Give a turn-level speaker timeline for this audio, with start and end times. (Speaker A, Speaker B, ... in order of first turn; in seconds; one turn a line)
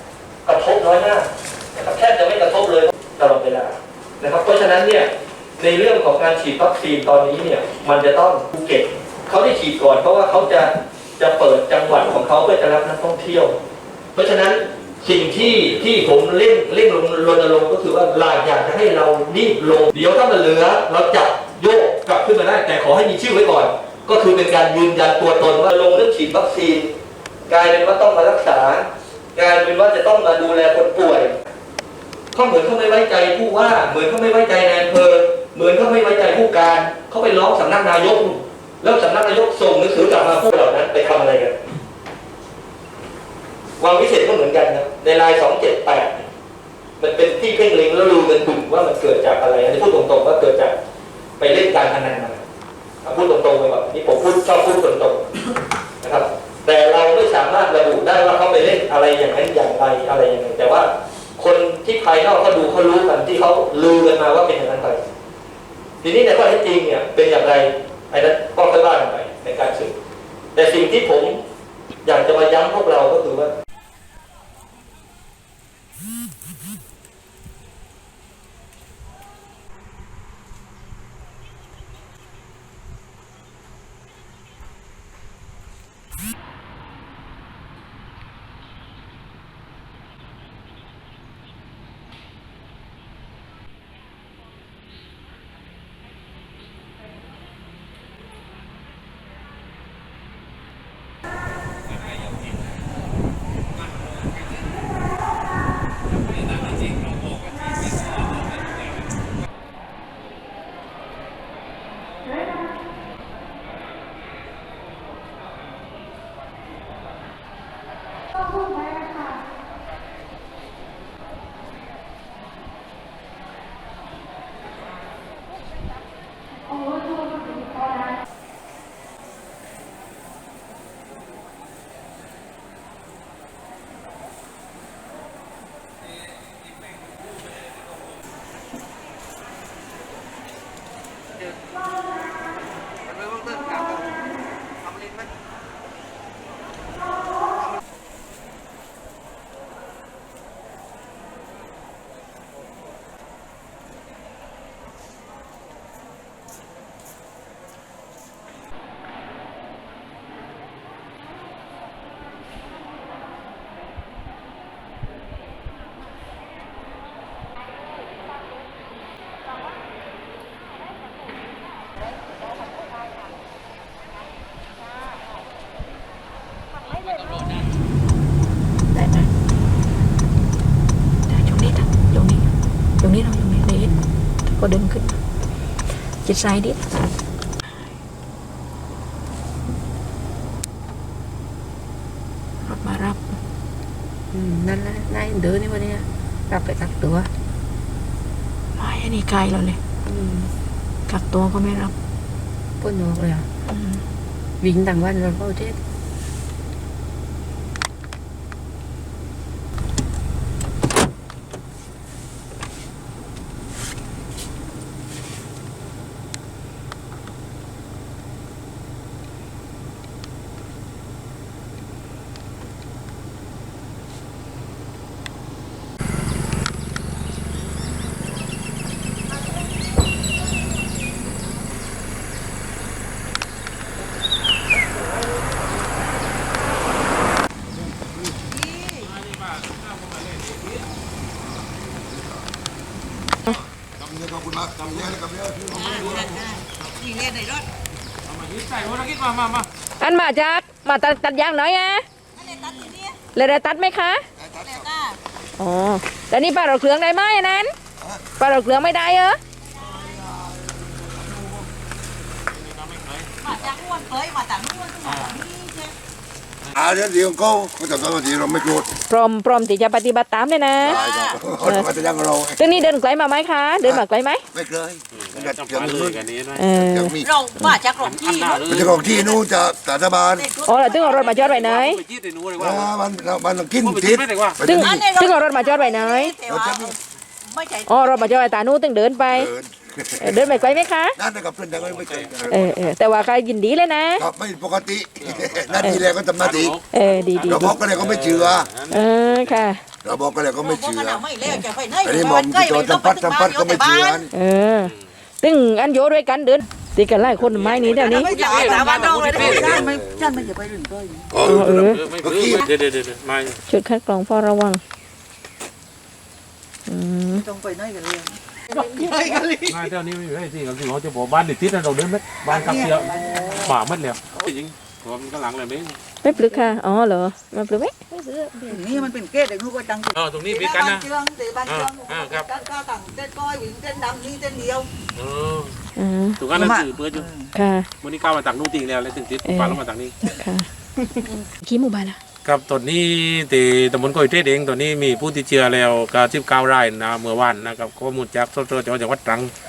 Speaker A: 0.5-13.6
Speaker A: 14.1-26.9
Speaker A: 27.5-31.3
Speaker A: 32.3-41.5
Speaker A: 43.8-46.3
Speaker A: 47.0-50.7
Speaker A: 51.4-52.4
Speaker A: 53.0-55.2
Speaker A: 56.0-65.0
Speaker A: 66.0-69.9
Speaker A: 70.5-71.4
Speaker A: 72.0-73.5
Speaker B: 178.9-179.3
Speaker C: 181.3-182.5
Speaker C: 183.0-183.9
Speaker B: 183.8-184.3
Speaker C: 184.4-185.2
Speaker C: 186.2-186.8
Speaker C: 192.6-193.3
Speaker B: 194.3-197.3
Speaker C: 198.8-199.8
Speaker B: 200.1-200.5
Speaker C: 201.1-201.9
Speaker B: 202.8-203.5
Speaker C: 203.7-204.0
Speaker B: 204.6-205.8
Speaker D: 238.5-239.1
Speaker E: 239.1-240.8
Speaker F: 244.0-246.1
Speaker E: 244.8-245.2
Speaker D: 245.7-247.7
Speaker E: 245.9-246.4
Speaker E: 248.3-249.7
Speaker C: 250.0-252.0
Speaker D: 252.3-253.2
Speaker C: 253.3-254.2
Speaker F: 254.4-254.9
Speaker D: 254.6-255.2
Speaker C: 255.6-257.7
Speaker C: 258.4-259.4
Speaker D: 259.6-260.3
Speaker F: 259.8-261.6
Speaker E: 262.6-263.3
Speaker D: 263.4-265.9
Speaker E: 265.0-265.4
Speaker F: 266.7-268.9
Speaker C: 269.1-271.0
Speaker F: 270.8-272.9
Speaker D: 270.9-271.5
Speaker C: 271.6-271.9
Speaker C: 272.5-274.4
Speaker F: 273.8-277.3
Speaker E: 275.1-276.7
Speaker C: 276.5-277.8
Speaker D: 277.2-279.4
Speaker E: 278.0-279.1
Speaker F: 278.7-280.5
Speaker D: 280.4-281.6
Speaker C: 280.6-282.0
Speaker E: 280.9-282.9
Speaker F: 282.6-285.1
Speaker E: 283.8-284.6
Speaker C: 284.6-286.4
Speaker D: 284.7-288.5
Speaker F: 286.4-286.9
Speaker C: 287.9-289.5
Speaker F: 289.3-290.5
Speaker C: 290.2-291.2
Speaker F: 291.1-292.8
Speaker E: 291.8-292.7
Speaker C: 292.5-294.2
Speaker F: 294.2-296.8
Speaker E: 295.2-299.6
Speaker C: 296.9-297.7
Speaker F: 297.5-298.7
Speaker C: 298.9-299.8
Speaker F: 300.0-304.3
Speaker D: 300.6-304.2
Speaker C: 304.3-308.4
Speaker D: 307.6-311.4
Speaker E: 307.8-309.9
Speaker F: 309.3-310.5
Speaker F: 311.3-311.6
Speaker E: 311.4-313.6
Speaker C: 311.4-312.0
Speaker F: 312.2-312.6
Speaker C: 313.7-314.8
Speaker C: 316.9-317.4
Speaker D: 317.3-319.9
Speaker E: 319.6-326.0
Speaker D: 322.4-323.8
Speaker C: 326.2-327.9
Speaker D: 328.5-334.9
Speaker E: 330.1-331.1
Speaker E: 331.6-332.5
Speaker E: 335.1-335.8
Speaker C: 336.0-336.4
Speaker E: 336.4-337.3
Speaker D: 336.5-337.5
Speaker C: 337.5-337.9
Speaker E: 338.0-340.2
Speaker C: 339.4-339.8
Speaker C: 340.4-340.6
Speaker C: 341.6-342.2
Speaker E: 342.4-349.5